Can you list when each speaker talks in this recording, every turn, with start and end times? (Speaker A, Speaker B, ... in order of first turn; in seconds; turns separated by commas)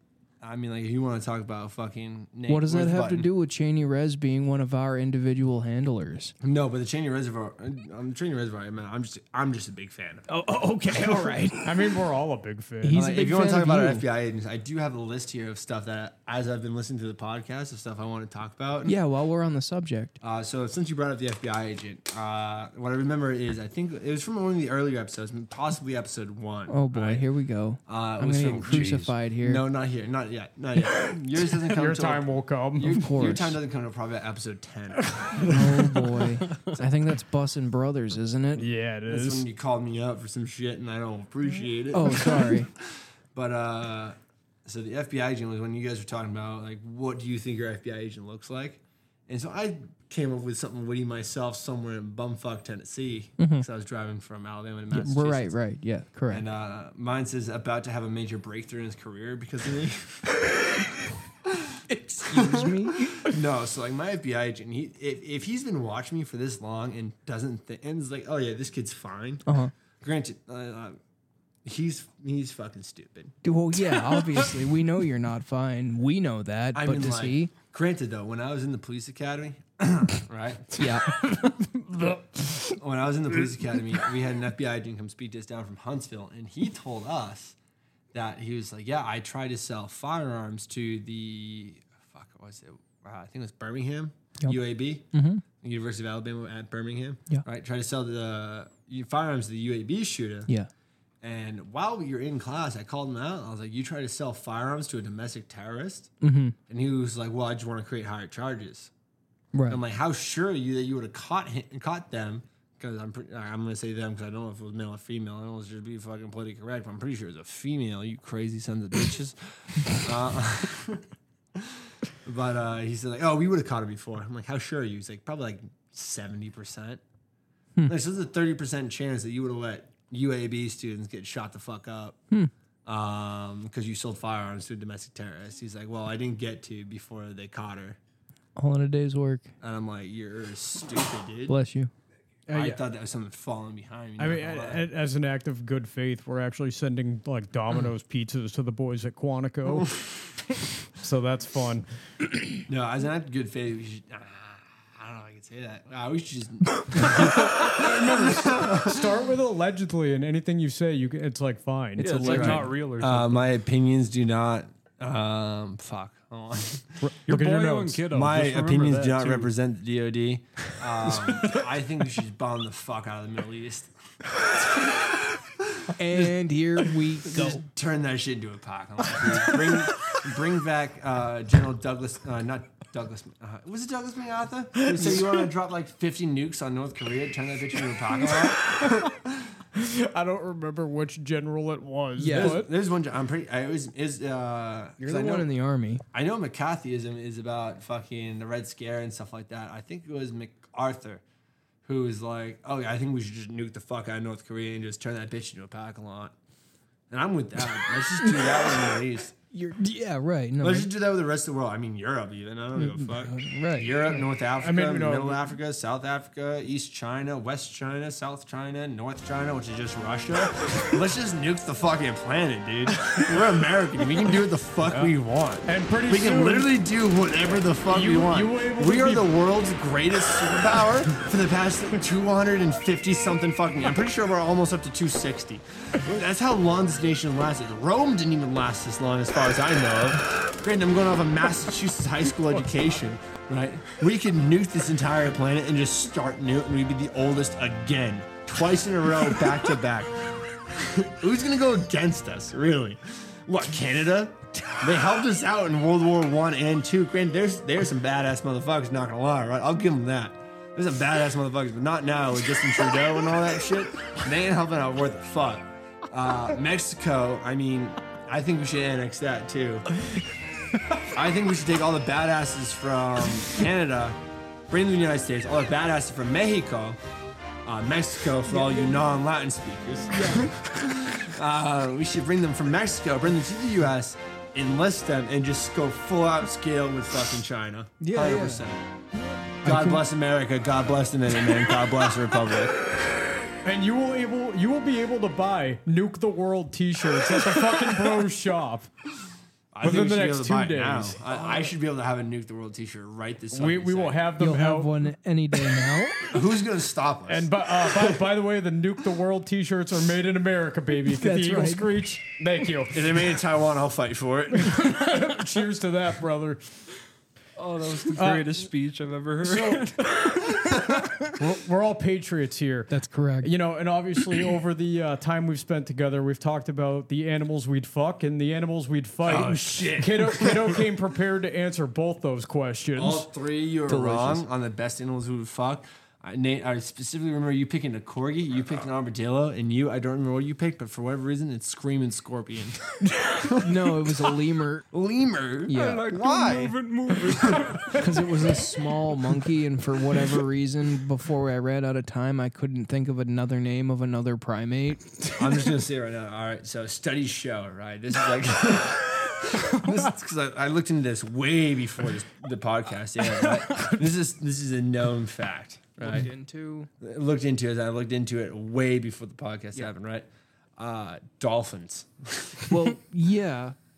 Speaker A: 0.4-3.3, Speaker B: 2.5-6.3, Speaker A: 6.4-10.2, Speaker B: 10.3-11.9, Speaker C: 11.6-13.0, Speaker B: 12.8-14.0, Speaker A: 12.9-18.9, Speaker B: 18.8-20.2, Speaker A: 20.2-27.2, Speaker B: 26.7-29.6, Speaker A: 27.9-35.5, Speaker D: 28.7-29.1, Speaker C: 31.7-32.9, Speaker B: 32.8-33.6, Speaker C: 35.3-36.0, Speaker B: 35.5-38.6, Speaker C: 38.5-39.5, Speaker A: 39.1-42.7, Speaker B: 41.9-42.7, Speaker A: 43.3-55.5, Speaker B: 53.4-53.6, Speaker B: 54.9-56.4, Speaker A: 56.3-60.7, Speaker A: 61.5-69.5, Speaker B: 61.9-63.3, Speaker B: 69.5-69.7, Speaker A: 70.0-71.0, Speaker A: 71.6-73.3, Speaker B: 73.4-77.5, Speaker A: 76.7-80.9, Speaker B: 80.8-81.1, Speaker C: 81.8-82.2, Speaker A: 82.7-87.5, Speaker A: 88.1-95.1, Speaker B: 95.1-95.4, Speaker A: 95.6-100.5, Speaker A: 101.2-106.1, Speaker B: 106.2-106.5, Speaker A: 106.7-108.9, Speaker B: 109.5-109.8, Speaker A: 109.7-121.0, Speaker A: 121.5-127.0, Speaker A: 127.8-132.2, Speaker A: 132.8-138.0, Speaker B: 138.6-139.5, Speaker A: 139.6-141.5, Speaker B: 141.5-141.9, Speaker A: 142.5-144.8, Speaker C: 142.5-142.8, Speaker C: 144.2-150.0, Speaker C: 150.9-151.8, Speaker A: 152.7-159.0, Speaker C: 157.2-162.7, Speaker D: 162.0-163.5, Speaker A: 162.1-167.0, Speaker C: 167.0-168.0, Speaker D: 167.3-169.5, Speaker A: 168.1-173.9, Speaker B: 175.9-177.6, Speaker A: 177.3-189.5, Speaker C: 189.7-192.7, Speaker B: 192.2-192.7, Speaker A: 192.3-195.5, Speaker B: 195.0-196.0, Speaker A: 196.1-201.2, Speaker A: 201.8-206.3, Speaker A: 207.1-209.3, Speaker B: 208.2-208.9, Speaker B: 209.5-210.9, Speaker A: 210.6-269.9, Speaker B: 212.7-214.2, Speaker C: 214.6-215.5, Speaker C: 224.9-225.1, Speaker C: 225.6-226.8, Speaker C: 227.8-229.3, Speaker A: 271.1-277.0, Speaker A: 277.6-288.8, Speaker B: 278.5-279.0, Speaker B: 280.1-280.5, Speaker B: 288.0-288.6, Speaker B: 289.6-290.0, Speaker A: 289.6-292.8, Speaker C: 293.6-298.9, Speaker A: 299.7-304.2, Speaker C: 299.8-301.6, Speaker C: 303.5-304.9, Speaker B: 304.4-306.3, Speaker A: 306.3-308.3, Speaker C: 307.3-313.1, Speaker B: 311.0-312.0, Speaker A: 312.9-314.9, Speaker C: 314.6-316.6, Speaker D: 317.6-321.2, Speaker C: 318.1-318.7, Speaker C: 319.4-320.1, Speaker C: 321.3-322.9, Speaker B: 322.9-323.5, Speaker C: 323.4-333.3, Speaker A: 329.2-330.8, Speaker A: 332.9-344.3, Speaker B: 333.9-334.4, Speaker B: 343.5-344.9, Speaker A: 344.9-347.8, Speaker B: 345.7-346.1, Speaker D: 345.7-348.1, Speaker B: 347.9-355.3, Speaker A: 355.4-366.3, Speaker B: 366.0-366.9, Speaker A: 367.0-372.7, Speaker B: 372.7-373.8